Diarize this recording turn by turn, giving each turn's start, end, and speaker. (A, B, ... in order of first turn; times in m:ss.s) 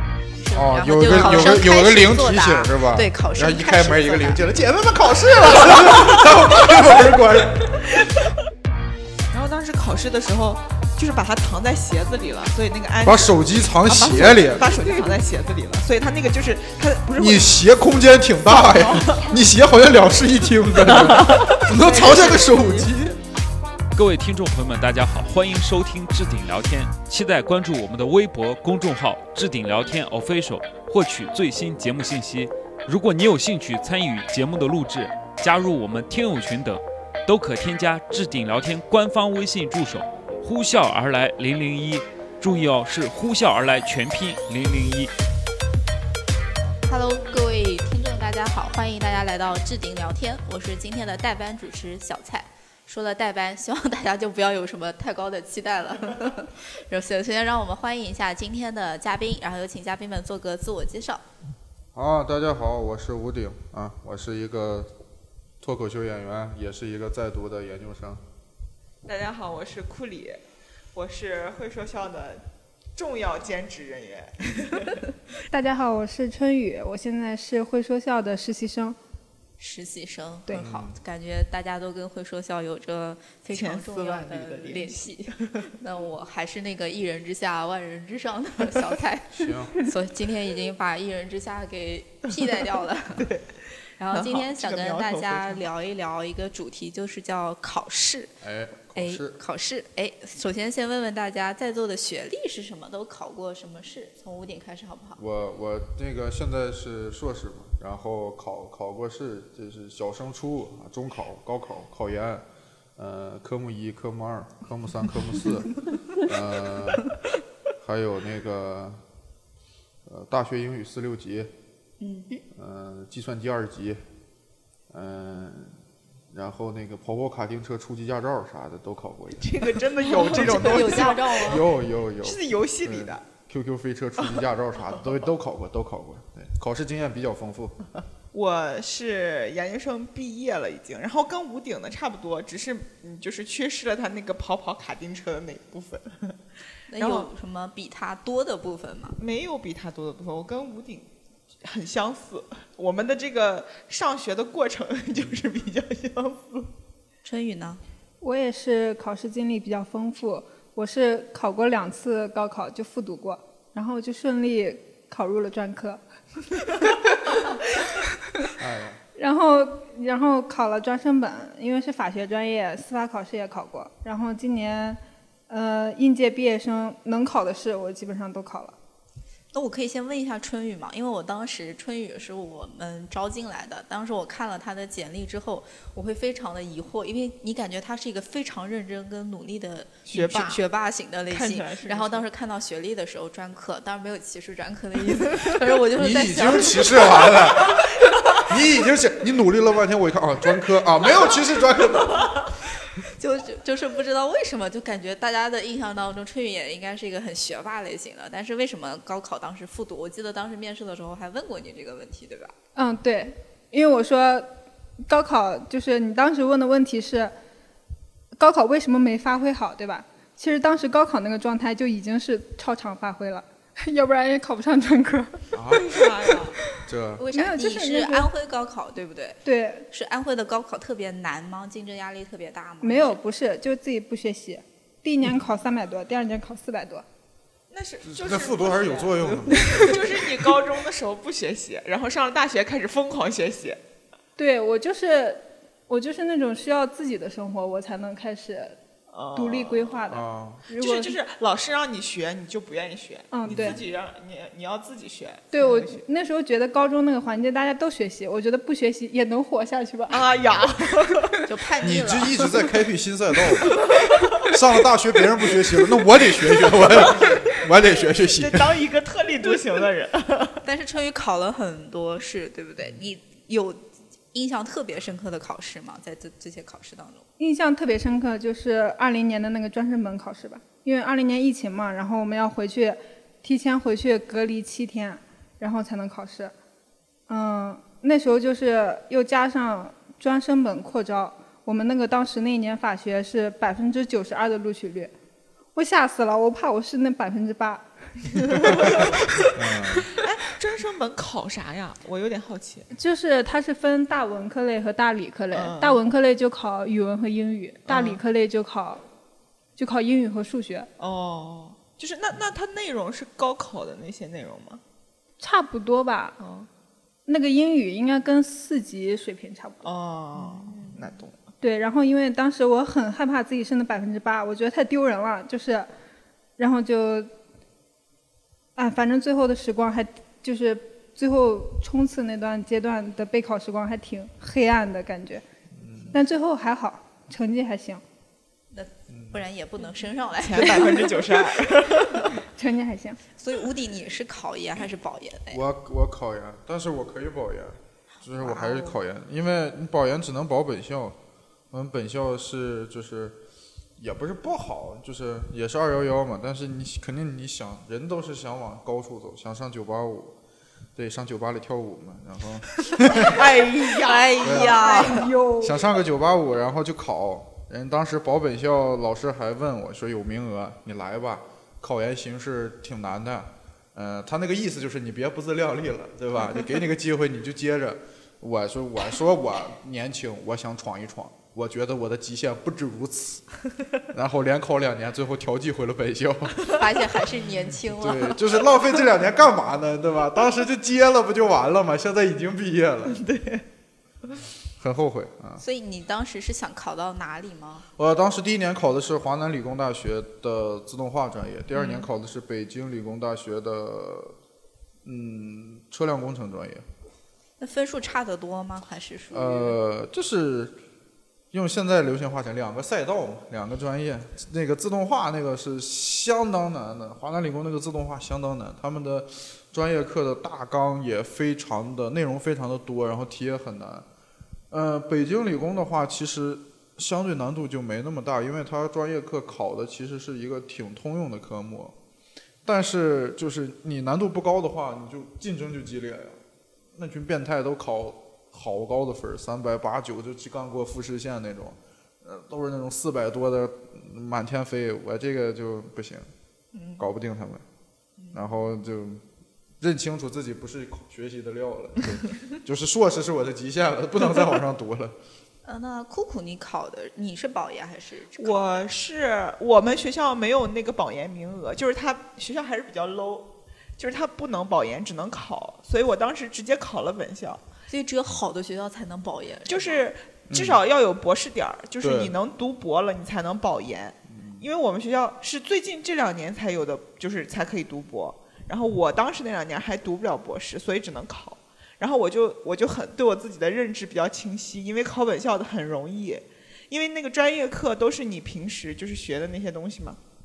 0:00.4-0:04.4 A
0:00.5-0:07.8 B
0:09.3-0:17.6 C
0:13.0-0:14.7 B
0:17.2-0:23.2 B
0:18.4-0:19.3 C
0:20.9-0:21.6 C
0:21.7-0:22.8 A
0:23.9-0:45.1 D
0:46.8-1:01.2 A
1:01.9-1:04.9 B
1:05.6-1:08.2 B
1:09.0-1:10.4 C
1:10.9-1:12.4 C
1:13.0-1:15.0 C
1:15.5-1:19.0 E
1:19.6-1:33.3 A
1:20.5-1:20.9 B
1:23.5-1:25.7 C
1:29.3-1:29.8 B
1:33.2-1:35.6 C
1:34.0-1:38.3 A
1:38.4-1:39.4 B
1:38.9-1:45.2 A
1:45.2-1:52.4 B
1:53.0-1:57.1 B
1:57.8-1:59.0 B
2:00.0-2:01.5 B
2:02.0-2:02.4 A
2:02.5-2:04.0 B
2:04.9-2:05.8 B
2:06.3-2:17.8 B
2:09.4-2:13.2 C
2:10.2-2:11.7 A
2:18.3-2:26.4 C
2:26.9-2:29.2 A
2:27.0-2:27.3 C
2:29.2-2:31.1 C
2:31.6-2:36.7 C
2:37.2-2:37.8 A
2:38.2-2:46.0 E
2:46.6-2:47.4 E
2:48.6-2:49.0 B
2:49.2-2:58.8 E
2:59.5-3:18.4 A
3:10.1-3:10.6 C
3:11.3-3:12.3 C
3:15.9-3:17.9 B
3:18.4-3:22.5 B
3:23.1-3:32.5 A
3:32.7-3:34.5 E
3:35.1-3:37.3 E
3:38.4-3:46.4 E
3:45.5-3:45.9 B
3:45.7-3:46.6 C
3:46.8-3:47.2 B
3:47.2-3:53.2 A
3:47.3-3:48.3 E
3:49.4-3:49.9 E
3:52.8-3:57.0 E
3:57.7-4:03.8 C
3:58.0-4:00.3 B
4:04.4-4:08.8 E
4:09.1-4:10.0 C
4:09.3-4:11.2 E
4:10.1-4:10.6 B
4:10.8-4:16.0 C
4:13.3-4:13.8 E
4:13.4-4:13.8 B
4:15.5-4:20.2 E
4:20.1-4:21.4 C
4:21.5-4:22.5 A
4:21.8-4:23.8 B
4:24.4-4:28.8 B
4:26.8-4:27.5 C
4:28.2-4:30.6 C
4:30.6-4:37.2 A
4:37.4-4:46.5 E
4:47.3-4:55.1 E
4:55.7-4:59.1 E
4:58.5-4:59.2 C
4:59.5-5:00.1 B
5:00.1-5:02.9 C
5:02.9-5:09.0 E
5:05.5-5:06.0 C
5:07.9-5:08.2 C
5:09.8-5:10.9 E
5:11.0-5:14.8 C
5:15.4-5:16.4 E
5:16.4-5:16.7 C
5:17.3-5:19.8 E
5:19.8-5:21.4 C
5:21.6-5:25.9 E
5:26.6-5:27.3 E
5:28.8-5:35.4 E
5:35.8-5:36.2 B
5:36.1-5:38.0 E
5:38.7-5:41.4 A
5:39.1-5:39.4 B
5:40.4-5:42.3 C
5:42.4-5:43.2 E
5:43.4-5:45.6 A
5:45.5-5:51.2 B
5:48.4-5:48.9 A
5:51.7-5:53.4 B
5:54.0-6:00.4 B
6:00.9-6:03.4 B
6:03.2-6:05.2 C
6:03.9-6:05.3 A
6:04.4-6:04.9 B
6:04.8-6:06.0 E
6:05.6-6:23.4 B
6:24.1-6:26.8 B
6:26.7-6:28.6 A
6:27.4-6:33.3 B
6:33.1-6:33.6 C
6:34.8-6:35.6 B
6:35.6-6:37.8 A
6:38.0-6:44.3 B
6:45.0-6:46.8 B
6:47.6-6:49.7 A
6:49.3-6:50.8 B
6:51.5-7:04.1 B
7:04.7-7:12.0 B
7:12.6-7:16.4 B
7:16.9-7:26.3 B
7:26.7-7:27.0 C
7:27.0-7:27.6 B
7:28.3-7:29.2 B
7:29.8-7:35.1 B
7:35.6-7:38.9 A
7:38.4-7:47.6 C
7:47.9-7:50.1 A
7:49.6-8:10.2 C
7:50.5-7:50.8 B
7:52.0-7:52.3 B
7:54.3-7:54.6 B